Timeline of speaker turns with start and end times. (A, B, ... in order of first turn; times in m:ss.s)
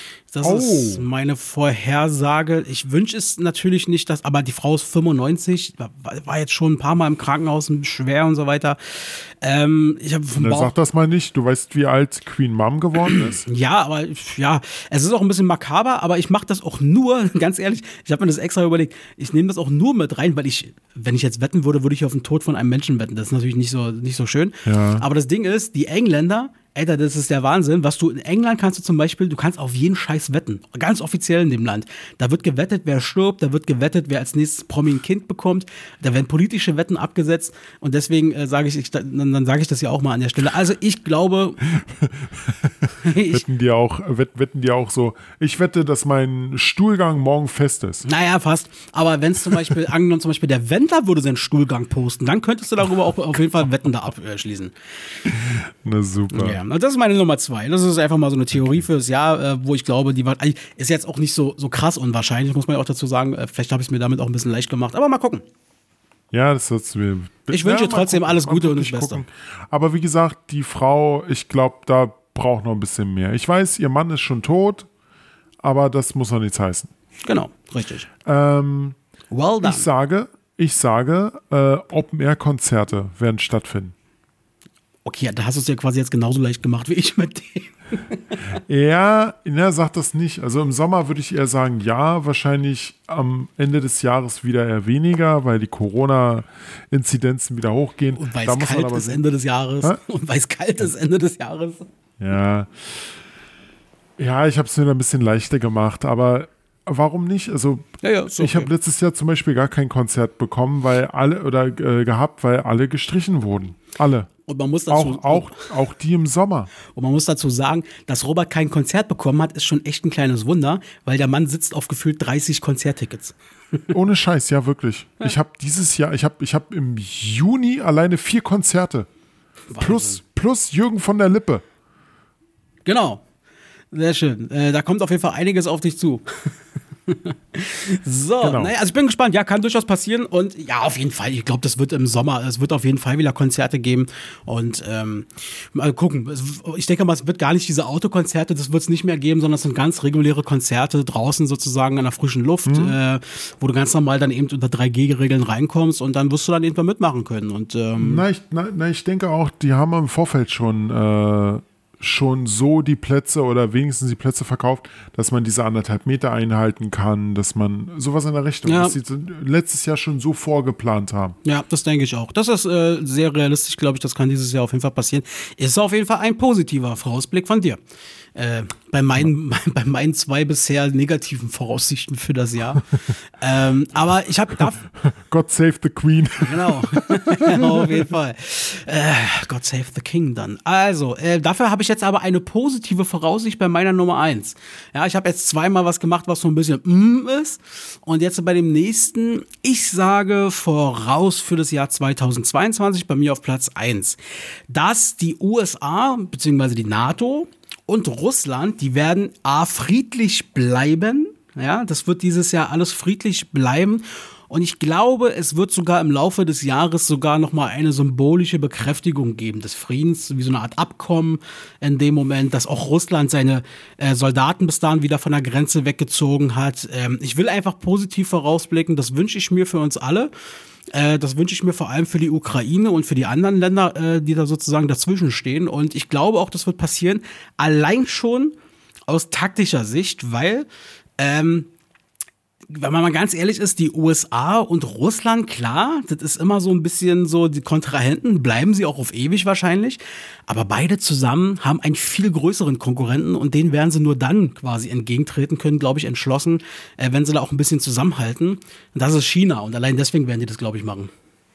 0:00.3-0:10.7 A
0:00.4-0:01.0 B
0:10.4-0:13.4 B
0:13.1-0:41.6 A
0:24.6-0:25.0 B
0:41.7-0:48.0 B
0:43.0-0:43.4 A
0:48.0-0:54.7 A
0:55.2-0:56.6 B
0:56.3-1:05.4 A
1:06.3-1:14.9 B
1:07.5-1:09.2 A
1:15.6-1:16.9 B
1:17.2-1:18.1 A
1:18.2-1:19.0 B
1:19.3-1:19.9 A
1:19.6-1:23.9 B
1:25.0-1:28.1 A
1:28.6-1:39.2 B
1:38.1-1:41.9 A
1:42.2-1:43.1 B
1:44.2-1:54.3 B
1:48.0-1:48.7 A
1:54.5-1:55.6 A
1:54.9-1:56.7 B
1:56.9-2:03.8 A
2:03.9-2:09.1 B
2:09.7-2:10.2 A
2:09.8-2:11.6 B
2:12.8-2:13.2 A
2:13.9-2:16.5 A
2:17.1-2:38.2 A
2:18.4-2:18.7 B
2:32.6-2:33.0 B
2:38.0-2:51.4 B
2:48.6-2:49.0 A
2:51.4-2:57.8 A
2:58.3-3:04.8 A
3:04.8-3:08.1 B
3:06.4-3:24.2 A
3:24.7-3:50.3 A
3:50.9-3:58.5 A
3:59.1-4:00.7 A
4:01.2-4:01.7 A
4:02.7-4:21.1 A